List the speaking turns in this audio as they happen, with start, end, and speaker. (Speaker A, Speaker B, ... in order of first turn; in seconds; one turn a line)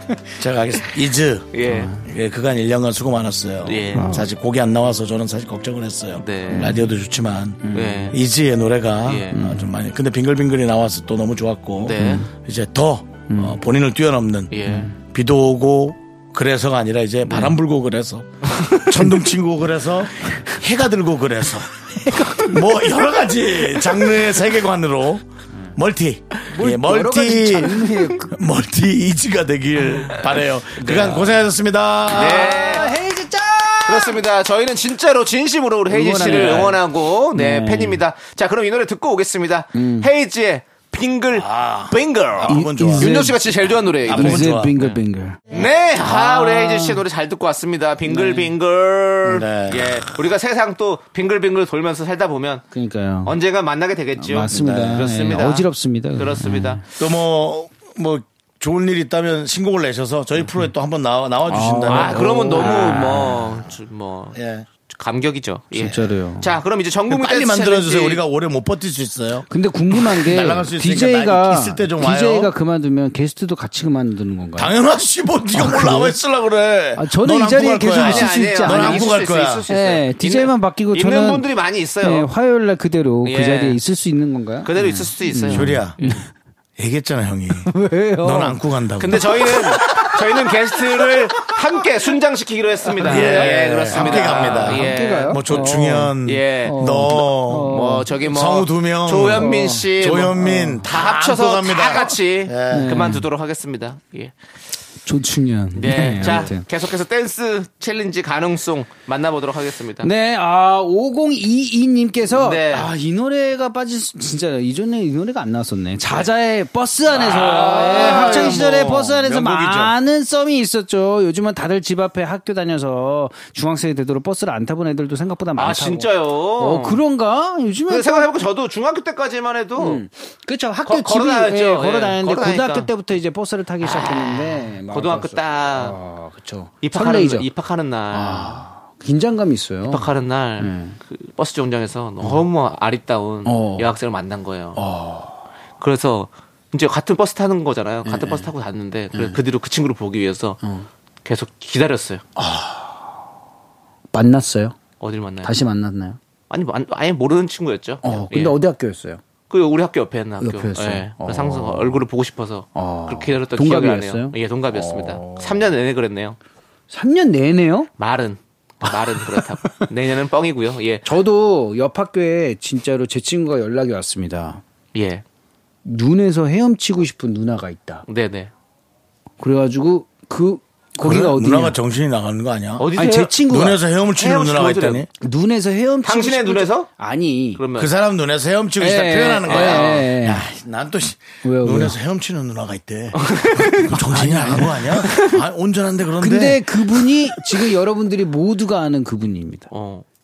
Speaker A: 0.4-32.6
Speaker B: 1.5-1.9
Speaker C: 1.7-2.0
Speaker B: 3.6-4.1
Speaker C: 4.0-4.3
Speaker B: 6.2-6.8
Speaker C: 6.5-6.9
Speaker C: 7.6-8.1
Speaker B: 7.7-8.2
Speaker B: 9.1-9.4
Speaker C: 9.3-9.7
Speaker B: 11.8-12.3
Speaker C: 12.0-12.3
Speaker C: 13.3-13.6
Speaker B: 14.5-14.9
Speaker C: 14.7-15.0
Speaker C: 22.0-23.1
Speaker C: 26.5-28.4
Speaker B: 30.8-31.3
Speaker C: 31.0-31.3
Speaker B: 32.1-32.9
Speaker C: 32.1-34.2
Speaker B: 33.9-45.0
Speaker C: 35.9-38.0
Speaker C: 39.7-40.1
Speaker A: 41.3-43.2
Speaker C: 42.5-43.4
Speaker C: 44.1-45.4
Speaker A: 44.1-44.8
Speaker B: 45.5-52.6
Speaker C: 46.0-47.0
Speaker C: 48.1-48.5
Speaker A: 49.2-50.2
Speaker C: 52.7-53.4
Speaker B: 53.2-56.8
Speaker C: 54.2-56.8
Speaker A: 57.0-63.5
Speaker C: 61.5-63.6
Speaker B: 61.9-64.4
Speaker A: 64.3-64.7
Speaker B: 64.9-68.2
Speaker C: 65.7-66.5
Speaker A: 67.1-72.5
Speaker C: 69.5-74.8
Speaker A: 74.6-79.7
Speaker C: 75.5-76.2
Speaker C: 77.0-81.5
Speaker B: 77.9-82.3
Speaker C: 82.0-86.2
Speaker B: 83.2-83.8
Speaker B: 84.6-86.2
Speaker A: 85.5-86.0
Speaker A: 86.8-91.2
Speaker C: 87.7-88.6
Speaker B: 89.0-104.3
Speaker C: 92.9-98.1
Speaker A: 93.0-103.1
Speaker C: 99.4-100.9
Speaker C: 102.7-103.3
Speaker C: 105.1-106.7
Speaker B: 105.7-110.1
Speaker C: 110.0-128.3
Speaker B: 112.3-112.9
Speaker B: 117.1-120.0
Speaker B: 125.6-127.0
Speaker B: 127.9-130.0
Speaker C: 129.8-137.5
Speaker B: 130.8-132.9
Speaker B: 133.8-136.0
Speaker B: 136.8-138.6
Speaker C: 138.1-140.1
Speaker B: 139.9-144.8
Speaker C: 140.6-141.0
Speaker C: 143.5-143.9
Speaker C: 144.8-145.4
Speaker B: 145.8-150.6
Speaker C: 148.1-148.5
Speaker C: 150.6-150.9
Speaker B: 151.2-152.2
Speaker C: 152.4-153.1
Speaker C: 154.1-154.8
Speaker B: 155.0-155.5
Speaker C: 155.4-156.2
Speaker B: 156.5-158.6
Speaker C: 158.0-159.2
Speaker B: 159.5-166.4
Speaker C: 160.4-162.0
Speaker C: 162.8-165.7
Speaker C: 166.9-167.9
Speaker B: 168.0-171.1
Speaker C: 169.2-169.8
Speaker C: 171.1-174.6
Speaker B: 174.9-175.2
Speaker C: 175.8-178.0
Speaker B: 178.1-178.5
Speaker C: 179.4-181.8
Speaker A: 181.0-185.1
Speaker B: 182.8-183.3
Speaker C: 182.9-183.8
Speaker B: 184.2-185.0
Speaker C: 185.2-187.6
Speaker B: 186.0-186.9
Speaker B: 187.6-187.9
Speaker A: 187.8-196.8
Speaker C: 188.8-190.5
Speaker B: 189.5-190.1
Speaker C: 191.4-192.0
Speaker B: 193.2-193.9
Speaker C: 193.9-195.2
Speaker C: 196.2-199.7
Speaker B: 199.7-200.1